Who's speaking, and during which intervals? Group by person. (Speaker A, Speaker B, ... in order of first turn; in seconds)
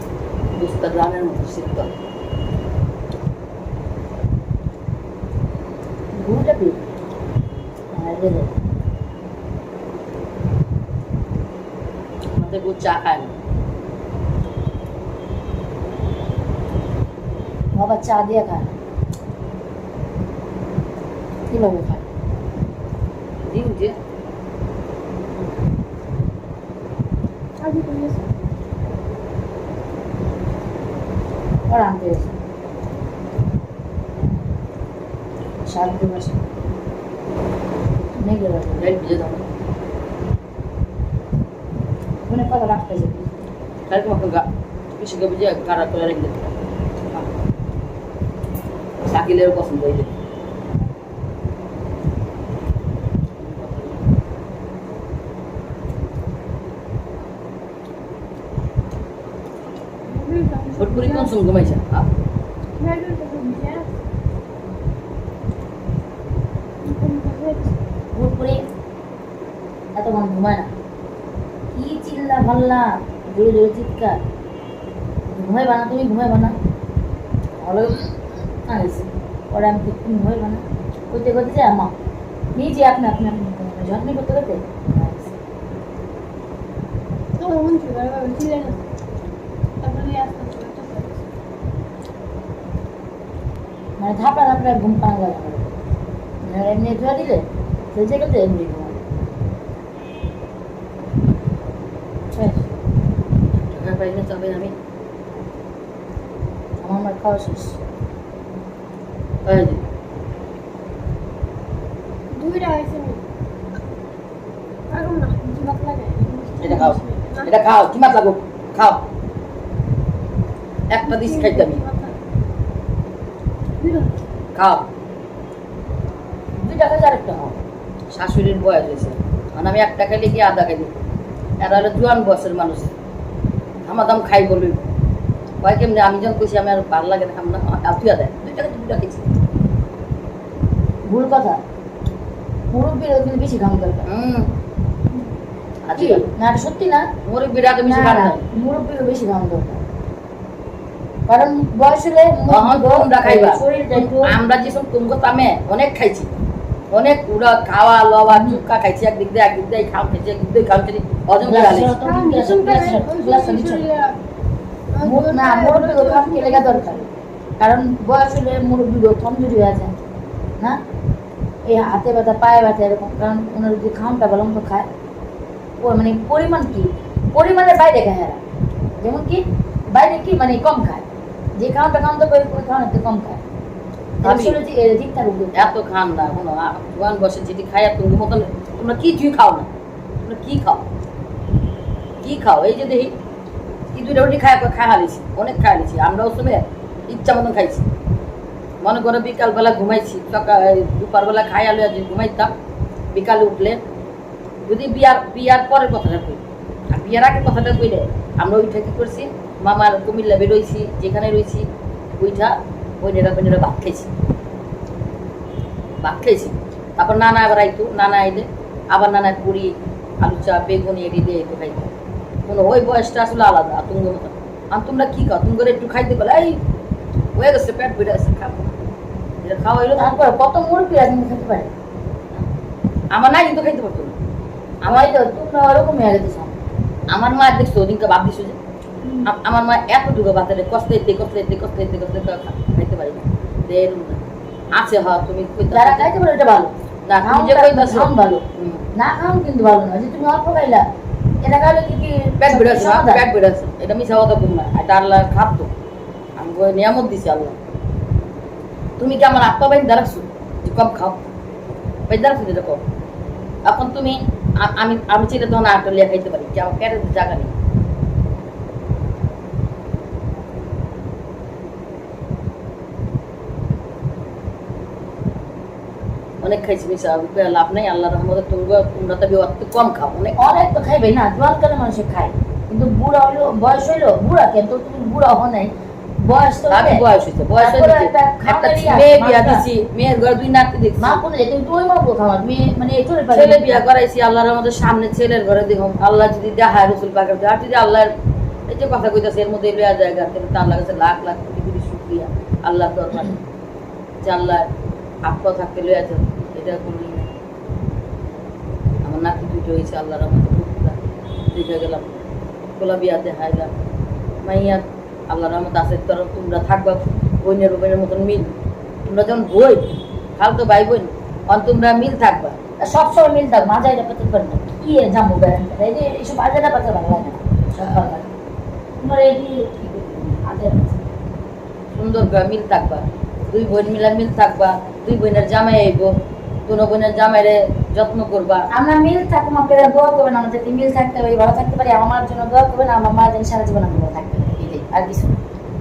Speaker A: 0.5-1.9, 12.3-13.3, 23.4-24.0, 38.8-39.5, 43.9-44.5, 45.0-46.5, 49.0-50.1, 53.4-54.0, 60.8-62.1, 103.5-104.8, 109.4-109.8, 116.6-119.0, 120.9-121.8, 124.5-124.9, 128.1-130.9, 131.6-132.9, 133.8-134.8, 135.6-139.3, 144.1-144.5, 145.8-146.2, 147.2-148.4, 152.5-156.3, 156.9-161.9, 184.2-184.6, 185.5-190.8, 192.2-193.1, 193.9-197.9, 198.8-202.5, 203.1-203.8, 204.7-211.7, 212.2-214.1, 216.0-221.9, 222.5-226.6, 227.3-228.7, 229.4-230.2, 233.1-234.1, 234.8-235.1, 237.1-238.6, 239.2-246.1, 247.1-248.9, 252.4-255.7, 256.4-257.6, 259.0-261.2, 262.1-262.8, 263.6-267.5, 276.4-280.5, 286.7-291.2, 293.3-298.1, 298.7-303.4, 304.2-304.7, 305.2-307.3, 309.0-311.0, 311.5-312.2, 312.8-313.7, 314.4-322.6, 331.9-336.1, 336.6-338.7
Speaker B: 6.1-6.8, 7.9-8.5, 17.7-18.8, 21.5-22.1, 31.7-32.4, 35.6-36.4, 38.2-38.9, 42.2-43.5, 68.1-68.6, 69.9-70.7, 71.7-74.2, 75.3-76.5, 77.6-81.9, 82.5-85.3, 94.0-95.7, 96.4-99.0, 102.3-102.6, 106.8-107.8, 126.6-127.6, 141.1-141.6, 142.7-144.1, 145.9-147.1, 147.8-149.8, 151.3-154.3, 158.3-158.6, 161.4-163.8, 165.0-167.0, 167.6-169.9, 171.6-174.9, 175.8-178.4, 179.0-181.0, 181.6-183.4, 184.2-185.7, 229.9-231.7, 234.8-236.6, 245.7-248.4, 248.9-250.8, 251.4-253.2, 280.4-285.7, 286.2-287.0, 287.6-289.6, 291.0-293.8, 322.8-328.3, 329.0-331.0, 338.7-345.4
Speaker C: 27.6-28.4, 60.1-61.4, 62.8-63.9, 66.8-67.8, 87.4-88.9, 89.8-91.2, 112.3-113.2, 114.9-117.5, 121.1-122.2, 123.8-124.2, 162.0-164.2, 164.9-167.1